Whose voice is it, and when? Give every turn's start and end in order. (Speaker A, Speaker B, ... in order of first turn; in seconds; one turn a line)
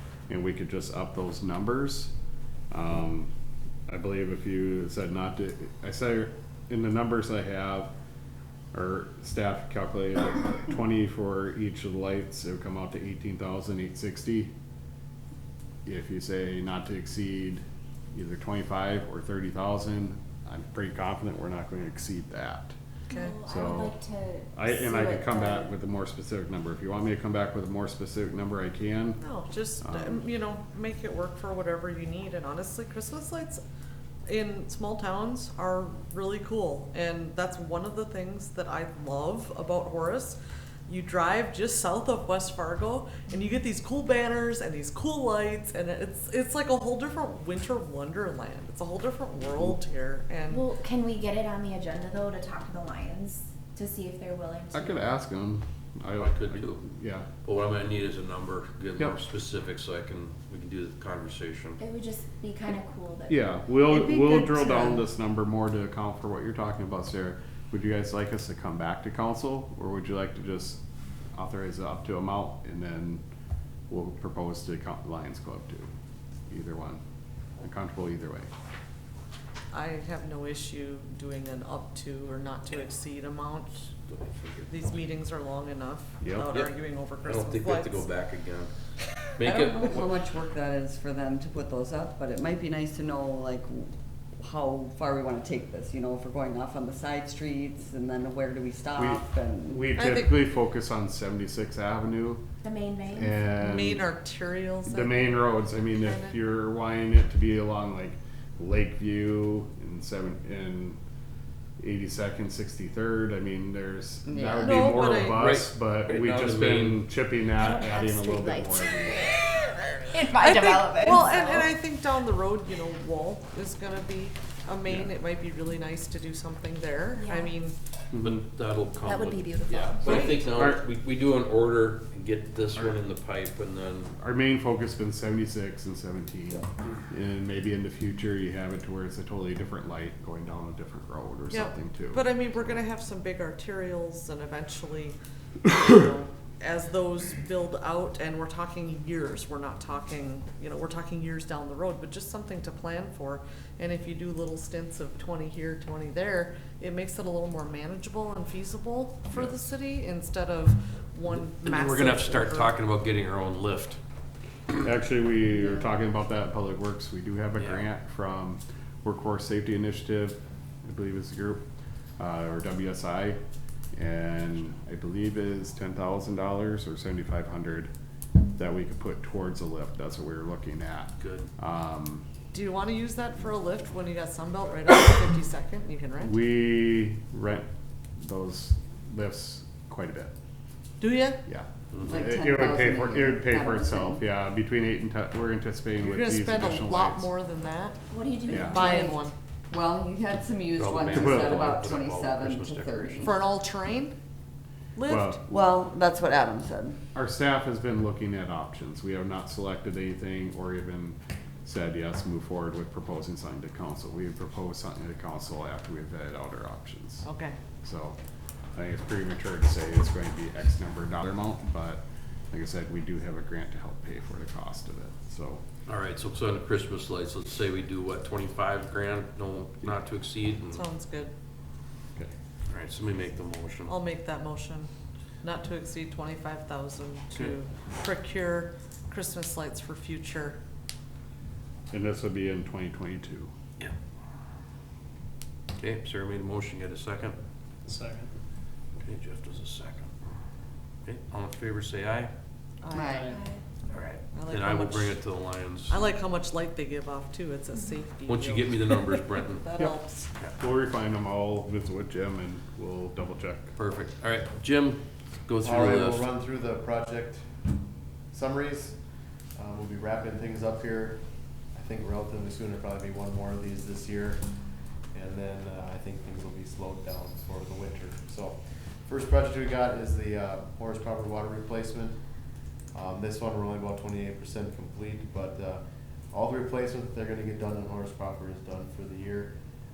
Speaker A: 0.3-2.1
Speaker A: 2.7-3.3
Speaker A: 3.9-7.9
Speaker A: 8.7-14.5
Speaker A: 15.8-22.7
Speaker B: 23.1-23.4
Speaker C: 23.1-25.6
Speaker A: 23.4-24.0
Speaker A: 24.5-29.2
Speaker B: 29.2-33.6
Speaker A: 29.8-30.2
Speaker B: 34.2-50.7
Speaker C: 50.5-55.1
Speaker A: 54.7-57.3
Speaker D: 56.2-56.9
Speaker D: 57.4-61.8
Speaker C: 61.8-63.5
Speaker A: 63.3-70.8
Speaker A: 71.3-73.2
Speaker A: 73.9-75.9
Speaker A: 76.5-77.0
Speaker A: 77.6-78.5
Speaker B: 79.7-83.9
Speaker D: 84.1-84.9
Speaker B: 84.7-88.1
Speaker A: 86.2-86.5
Speaker D: 86.5-88.7
Speaker D: 89.4-90.1
Speaker E: 89.4-99.8
Speaker A: 98.9-102.4
Speaker B: 99.9-100.3
Speaker C: 102.6-103.4
Speaker A: 103.1-104.1
Speaker B: 103.6-106.3
Speaker A: 104.9-111.0
Speaker A: 111.8-119.3
Speaker E: 114.2-114.9
Speaker B: 114.6-115.5
Speaker D: 115.2-117.1
Speaker C: 117.6-118.7
Speaker C: 120.1-121.5
Speaker B: 120.2-127.7
Speaker C: 127.2-127.5
Speaker A: 128.1-128.4
Speaker D: 128.2-134.1
Speaker C: 129.0-130.4
Speaker A: 130.0-130.8
Speaker A: 134.2-142.7
Speaker B: 141.5-162.7
Speaker D: 161.3-164.0
Speaker A: 164.8-171.6
Speaker D: 167.6-167.8
Speaker A: 172.2-173.4
Speaker A: 173.9-177.9
Speaker A: 178.6-182.2
Speaker D: 181.2-181.5
Speaker B: 182.5-186.3
Speaker A: 186.2-187.7
Speaker A: 188.2-190.3
Speaker B: 191.0-191.4
Speaker A: 191.4-197.3
Speaker D: 191.9-192.2
Speaker E: 192.1-194.2
Speaker B: 196.0-199.3
Speaker C: 198.1-199.0
Speaker A: 198.5-198.8
Speaker E: 198.6-203.3
Speaker D: 200.8-203.3
Speaker A: 201.1-201.9
Speaker B: 203.2-204.1
Speaker B: 204.9-205.4
Speaker A: 205.1-205.4
Speaker E: 205.5-207.0
Speaker A: 207.1-217.3
Speaker B: 217.2-217.6
Speaker A: 217.8-218.2
Speaker A: 218.7-225.6
Speaker D: 225.9-230.8
Speaker B: 230.7-231.3
Speaker D: 232.7-233.9
Speaker B: 233.9-234.9
Speaker B: 235.4-240.6
Speaker A: 241.9-243.5
Speaker D: 245.8-247.4
Speaker C: 247.9-248.2
Speaker D: 249.0-250.1
Speaker D: 251.0-252.3
Speaker E: 252.9-253.4
Speaker C: 253.3-253.6
Speaker D: 253.9-256.0
Speaker B: 254.3-255.2
Speaker B: 255.9-260.3
Speaker D: 258.2-259.6
Speaker A: 260.6-263.7
Speaker D: 263.8-266.3
Speaker F: 265.6-267.7
Speaker F: 268.3-269.0
Speaker F: 269.5-274.5
Speaker F: 275.1-282.2
Speaker F: 282.9-289.6